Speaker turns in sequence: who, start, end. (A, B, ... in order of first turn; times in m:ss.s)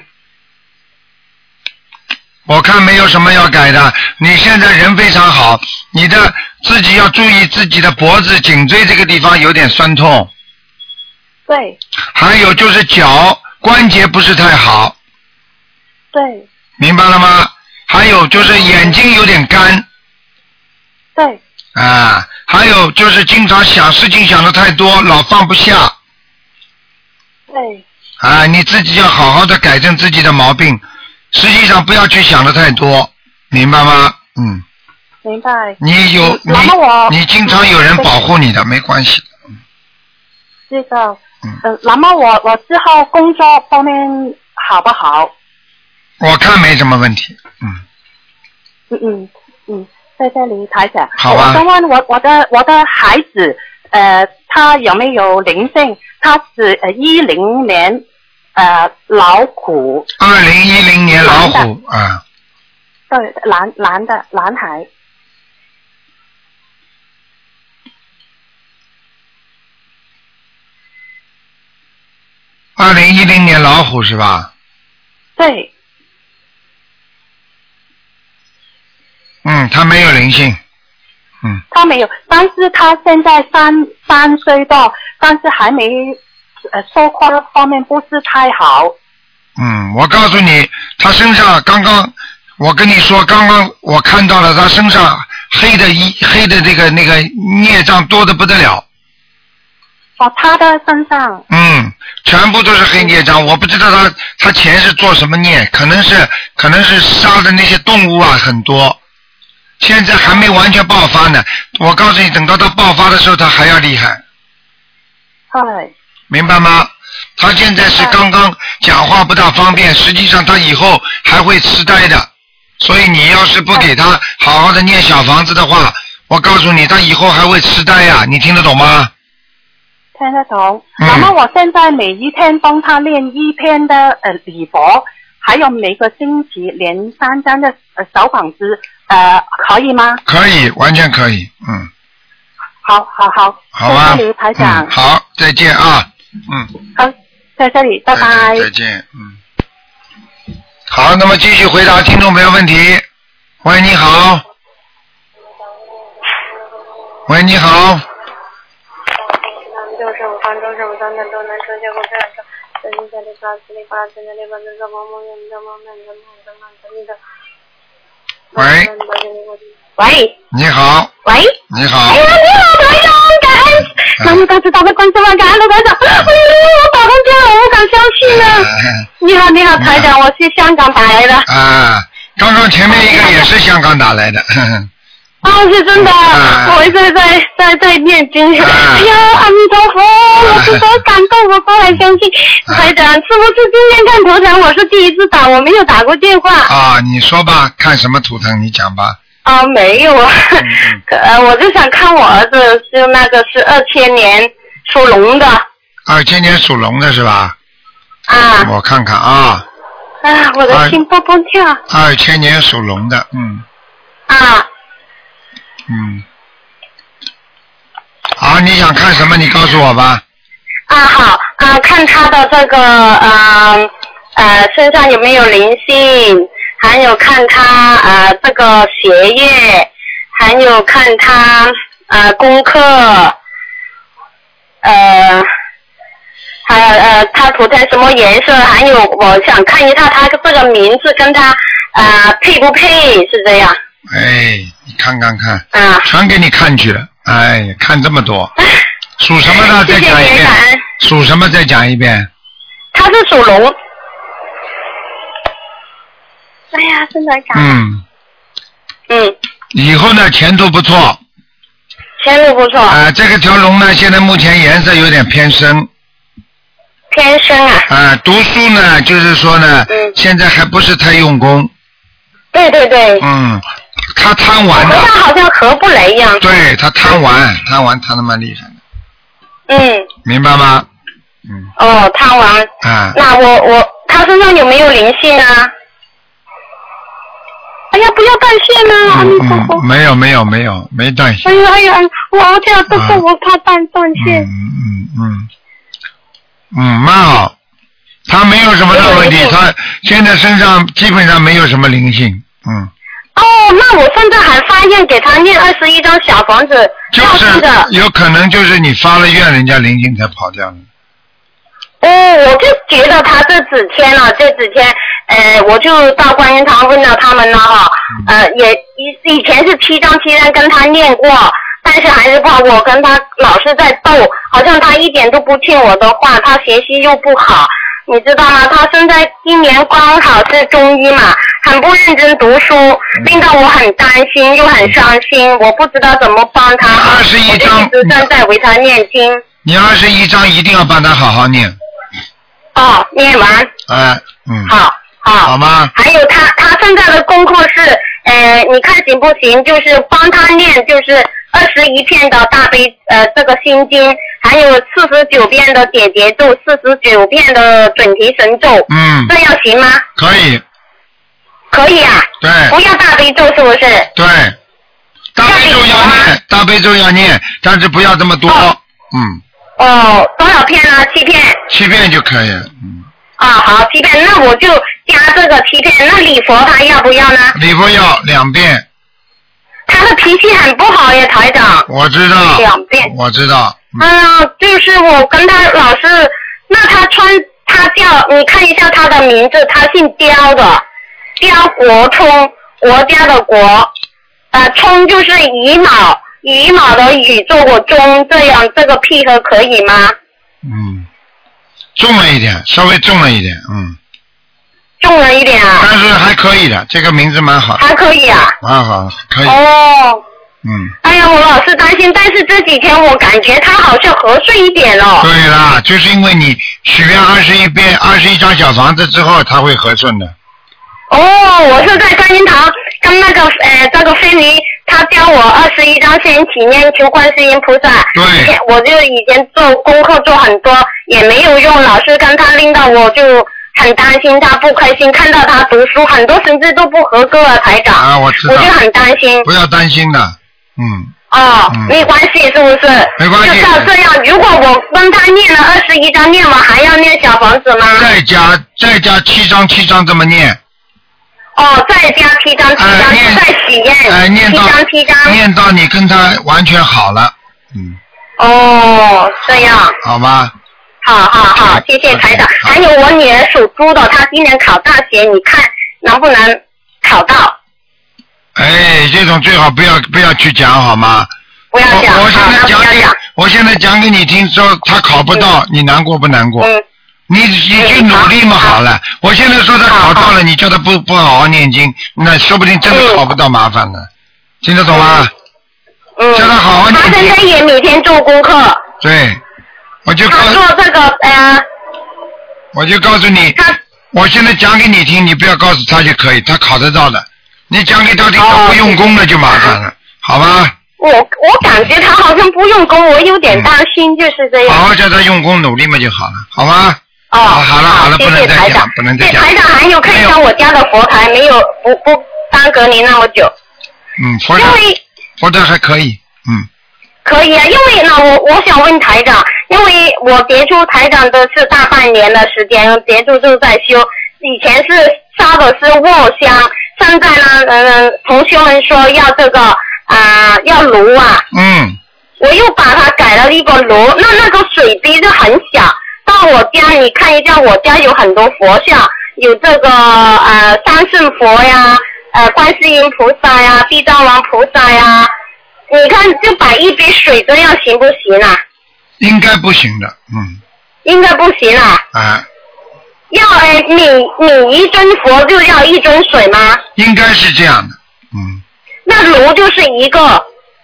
0:02.5-0:10.3 A
0:11.5-0:11.8 B
0:12.1-0:15.0 A
0:16.1-0:16.4 B
0:16.8-0:19.8 A
0:18.4-0:18.9 B
0:21.1-0:21.4 B
0:21.7-0:25.9 A
0:27.5-0:27.8 B
0:28.2-0:34.6 A
0:35.2-0:38.1 B
0:35.8-0:39.3 A
0:40.7-0:45.3 B
0:46.2-0:47.8 A
0:48.9-0:58.0 B
0:51.2-0:51.6 A
0:58.6-1:00.1 B
1:00.2-1:02.2 A
1:01.2-1:01.6 B
1:03.1-1:04.9 B
1:12.8-1:14.5 A
1:15.4-1:15.7 B
1:19.4-1:20.6 A
1:21.7-1:26.2 B
1:26.7-1:28.9 B
1:29.6-1:38.8 A
1:40.2-1:41.4 B
1:41.5-1:49.0 A
1:49.8-1:54.2 A
1:55.5-1:55.9 B
1:56.3-2:09.1 A
2:10.2-2:20.2 B
2:11.0-2:11.3 A
2:20.2-2:21.9 A
2:22.8-2:24.9 B
2:23.7-2:26.7 A
2:26.9-2:28.7 B
2:28.1-2:29.4 A
2:30.9-2:33.0 A
2:33.6-2:34.4 A
2:35.6-2:36.7 C
2:37.3-2:38.0 A
2:39.2-2:47.2 C
2:48.5-2:49.7 C
2:48.6-2:48.9 A
2:50.0-2:50.3 D
2:50.5-2:51.1 A
2:51.2-2:51.6 D
2:51.7-2:52.2 A
2:52.1-3:01.5 D
2:58.2-2:59.1 A
2:59.8-3:00.1 A
3:01.5-3:04.9 A
3:02.9-3:03.5 D
3:05.4-3:16.7 D
3:06.0-3:06.9 A
3:08.6-3:09.2 A
3:10.4-3:10.8 A
3:16.7-3:19.2 A
3:19.4-3:25.6 D
3:20.6-3:21.0 A
3:26.1-3:27.5 A
3:28.3-3:28.7 D
3:28.6-3:29.6 A
3:30.2-3:31.8 D
3:30.7-3:31.0 A
3:31.9-3:33.6 A
3:34.3-3:34.7 D
3:35.9-3:36.2 A
3:38.4-3:40.2 A
3:40.9-3:53.3 D
3:54.8-3:55.5 D
3:56.6-4:03.8 D
4:04.1-4:08.5 A
4:05.7-4:06.1 D
4:09.2-4:12.3 A
4:09.5-4:10.8 D
4:12.9-4:13.7 D
4:16.7-4:17.8 D
4:17.5-4:18.0 A
4:19.1-4:19.3 D
4:19.7-4:21.2 A
4:22.2-4:23.0 D
4:22.9-4:25.9 A
4:27.1-4:27.9 D
4:27.9-4:31.7 A
4:32.5-4:33.2 D
4:33.2-4:35.1 A
4:34.7-4:36.4 D
4:36.4-4:38.8 A
4:39.7-4:40.1 D
4:40.2-4:40.9 A
4:41.8-4:45.7 D
4:42.8-4:43.2 A
4:47.9-4:49.8 D
4:49.1-4:51.6 A
4:51.4-4:54.5 D
4:52.9-4:53.2 A
4:54.1-4:55.5 A
4:56.7-4:57.5 A
4:58.3-5:02.9 A
4:58.9-4:59.6 D
5:03.4-5:07.9 D
5:07.1-5:10.8 A
5:12.0-5:39.4 D
5:33.2-5:33.4 A
5:36.9-5:38.3 A
5:39.6-5:41.8 A
5:42.7-5:43.7 D
5:43.9-5:44.7 A
5:44.6-6:00.0 D
5:45.4-5:45.9 A
5:58.9-5:59.3 A
6:00.2-6:00.6 A
6:01.7-6:04.1 D
6:02.4-6:02.8 A
6:04.1-6:04.6 A
6:05.4-6:09.4 A
6:05.4-6:06.3 D
6:09.8-6:11.6 D
6:11.7-6:13.0 A
6:13.4-6:17.6 D
6:17.5-6:18.8 A
6:19.9-6:21.9 D
6:21.9-6:24.0 A
6:22.5-6:23.1 D
6:24.0-6:30.8 D
6:31.4-6:33.9 D
6:34.5-6:40.2 D
6:40.6-6:41.1 A
6:42.0-6:44.0 A
6:45.0-6:45.9 D
6:45.8-6:47.8 A
6:47.8-6:48.5 D
6:48.6-6:49.6 A
6:49.4-6:50.2 D
6:50.6-6:50.9 A
6:51.0-6:55.3 D
6:55.2-7:00.3 A
7:01.1-7:19.5 D
7:08.1-7:08.5 A
7:18.0-7:18.7 A
7:19.4-7:21.1 A
7:21.3-7:28.1 D
7:21.7-7:22.0 A
7:23.2-7:23.9 A
7:27.9-7:30.6 A
7:31.6-7:35.4 D
7:32.8-7:33.4 A
7:34.0-7:38.0 A
7:38.4-7:40.0 D
7:39.5-7:40.5 A
7:41.0-7:47.6 D
7:41.6-7:42.8 A
7:48.6-7:51.3 A
7:51.7-7:53.2 D
7:51.9-7:56.7 A
7:57.3-8:04.1 A
7:57.8-7:58.8 D
7:59.8-8:00.3 D
8:02.9-8:03.2 D
8:04.6-8:05.3 A
8:04.9-8:05.2 D
8:06.2-8:08.8 D
8:06.3-8:07.4 A
8:09.0-8:09.4 A
8:10.0-8:10.6 A
8:10.3-8:11.6 D
8:12.7-8:13.6 A
8:14.1-8:20.7 A
8:18.4-8:19.8 D
8:21.0-8:24.8 D
8:24.6-8:29.5 A
8:27.3-8:33.5 D
8:30.0-8:30.4 A
8:34.2-8:34.8 A
8:34.5-8:35.0 D
8:35.4-8:36.7 A
8:37.2-8:51.4 D
8:51.5-8:52.0 A
8:52.4-9:05.3 D
9:05.9-9:08.6 D
9:09.2-9:10.6 A
9:11.0-9:12.0 D
9:12.1-9:12.4 A
9:13.3-9:16.8 D
9:17.0-9:18.6 A
9:19.0-9:20.4 D